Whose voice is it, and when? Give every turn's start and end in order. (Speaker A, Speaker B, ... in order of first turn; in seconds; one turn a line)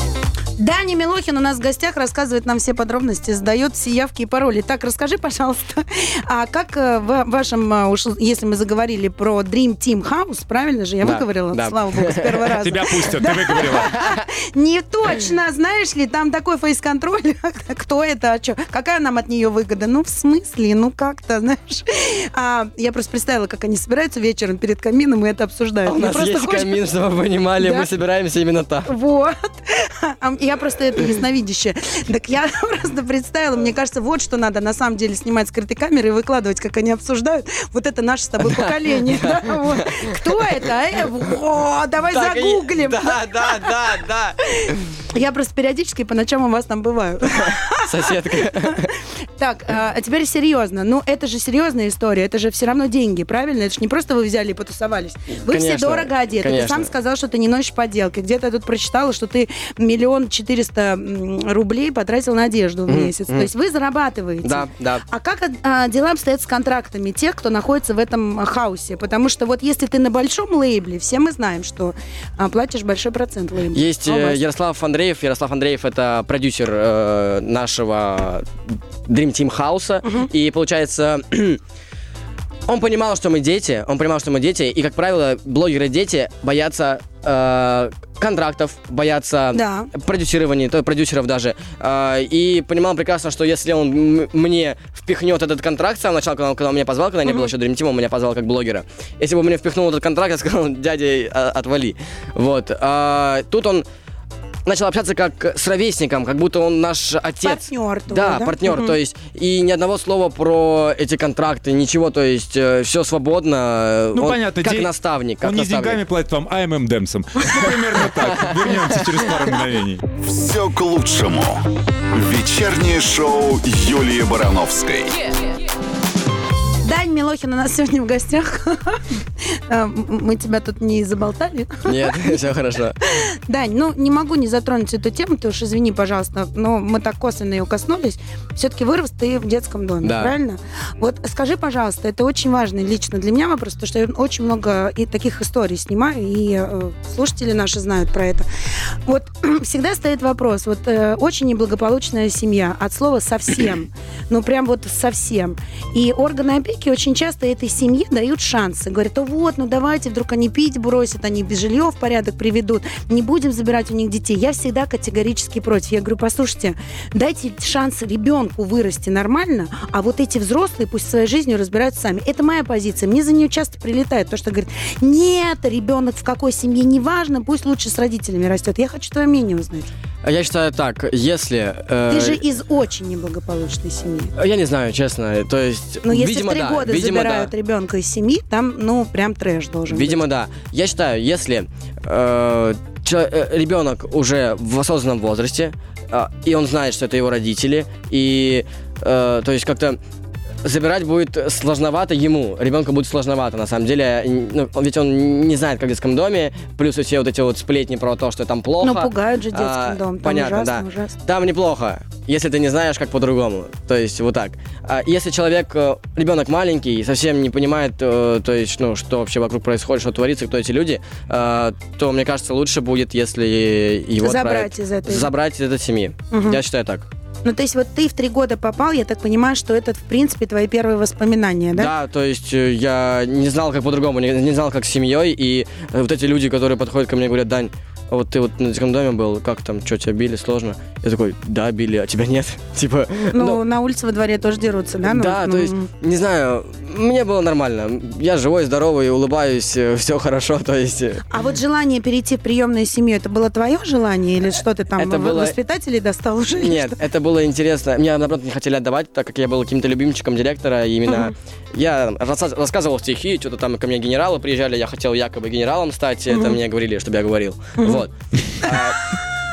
Speaker A: 0.6-26.8
Speaker B: 11.0-12.4
Speaker C: 12.5-13.9
Speaker B: 25.9-28.9
Speaker A: 27.6-27.9
Speaker A: 28.9-43.8
Speaker B: 38.4-40.2
Speaker B: 42.1-44.4
Speaker A: 44.5-74.4
Speaker B: 47.4-48.9
Speaker B: 55.5-56.9
Speaker B: 62.9-63.5
Speaker B: 64.4-65.0
Speaker B: 73.7-78.5
Speaker B: 79.1-81.6
Speaker B: 82.7-103.8
Speaker A: 89.5-89.9
Speaker B: 104.7-116.0
Speaker A: 107.4-109.0
Speaker C: 114.1-114.9
Speaker C: 115.4-120.0
Speaker B: 118.1-119.2
Speaker D: 120.2-125.2
Speaker A: 126.8-132.4
Speaker B: 131.8-133.0
Speaker A: 133.2-148.4
Speaker B: 140.0-140.3
Speaker A: 149.1-179.9
Speaker B: 180.2-182.4
Speaker A: 182.1-184.3
Speaker B: 184.4-187.5
Speaker A: 186.0-190.2
Speaker B: 189.9-200.0
Speaker B: 200.6-227.1
Speaker A: 208.8-211.1
Speaker A: 224.2-225.3
Speaker A: 226.3-226.6
Speaker A: 227.4-231.9
Speaker B: 231.7-243.6
Speaker A: 243.3-245.9
Speaker B: 245.0-251.2
Speaker A: 251.3-257.0
Speaker B: 254.9-255.6
Speaker B: 256.6-269.1
Speaker A: 266.3-266.6
Speaker A: 267.8-268.0